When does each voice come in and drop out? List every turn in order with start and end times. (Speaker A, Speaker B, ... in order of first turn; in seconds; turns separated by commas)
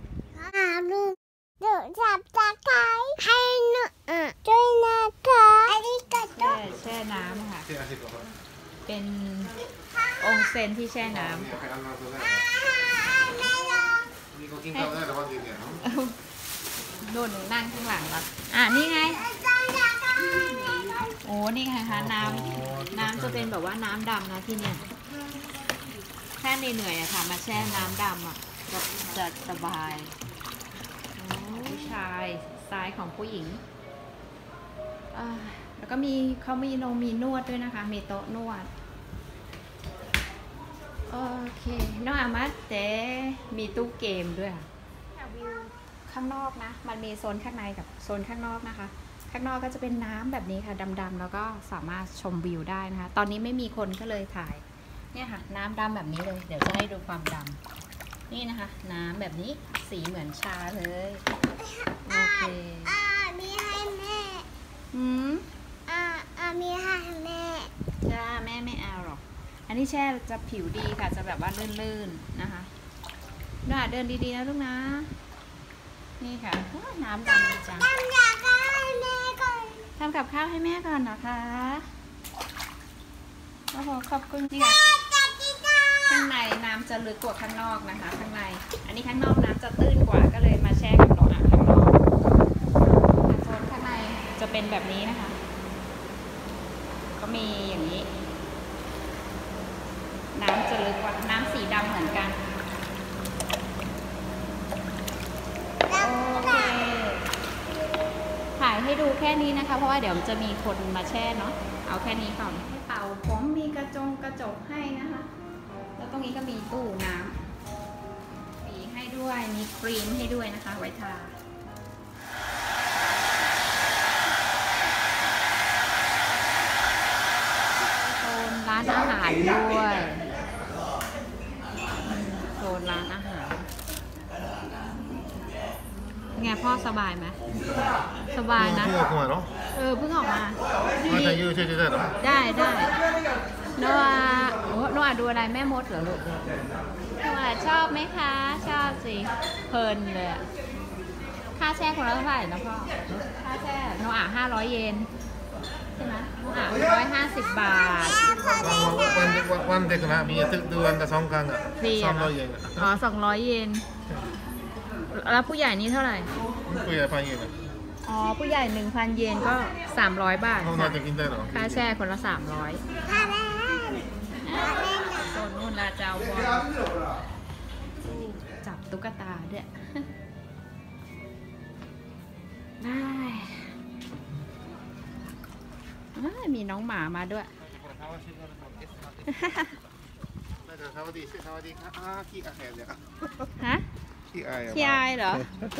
Speaker A: 0.4-6.6, Speaker B: 6.4-7.7, Speaker C: 7.7-8.3, Speaker B: 8.9-9.6, Speaker A: 9.8-10.2, Speaker B: 10.1-11.6, Speaker C: 11.1-12.4, Speaker A: 12.5-14.1, Speaker C: 14.3-15.8, Speaker B: 14.7-15.1, Speaker B: 15.8-16.2, Speaker B: 17.0-19.3, Speaker A: 19.1-21.1, Speaker B: 21.0-24.9, Speaker C: 21.9-23.5, Speaker B: 26.4-30.1, Speaker B: 31.2-33.6, Speaker B: 35.1-38.7, Speaker B: 41.1-57.6, Speaker B: 58.3-61.2, Speaker A: 61.6-64.5, Speaker B: 62.1-63.0, Speaker B: 64.9-65.5, Speaker A: 65.9-67.7, Speaker B: 68.0-72.7, Speaker B: 73.7-75.1, Speaker B: 76.2-77.9, Speaker A: 77.9-79.9, Speaker B: 80.0-81.9, Speaker B: 83.7-84.8, Speaker A: 84.8-86.1, Speaker B: 86.1-92.1, Speaker B: 93.1-95.4, Speaker B: 97.2-98.1, Speaker B: 100.3-102.5, Speaker A: 105.9-106.8, Speaker B: 105.9-107.3, Speaker B: 108.6-115.3, Speaker B: 116.0-117.4, Speaker B: 118.6-121.3, Speaker B: 127.9-130.2, Speaker B: 132.0-133.7, Speaker B: 136.3-137.4, Speaker B: 138.3-139.1, Speaker C: 138.6-139.5, Speaker B: 139.7-141.4, Speaker C: 141.1-142.1, Speaker B: 142.2-142.9, Speaker B: 143.7-146.3, Speaker B: 147.2-150.4, Speaker B: 151.5-155.1, Speaker B: 156.0-158.7, Speaker C: 158.6-162.9, Speaker B: 161.8-163.8, Speaker B: 165.1-166.3, Speaker C: 166.7-167.5, Speaker B: 168.0-172.8, Speaker C: 170.6-171.8, Speaker A: 173.1-175.3, Speaker B: 174.4-176.7, Speaker B: 178.0-180.1, Speaker B: 182.8-183.7, Speaker B: 186.1-187.5, Speaker C: 187.8-188.9, Speaker B: 189.3-189.7, Speaker C: 190.6-193.1, Speaker B: 193.6-193.8, Speaker C: 194.3-195.1, Speaker B: 194.7-195.5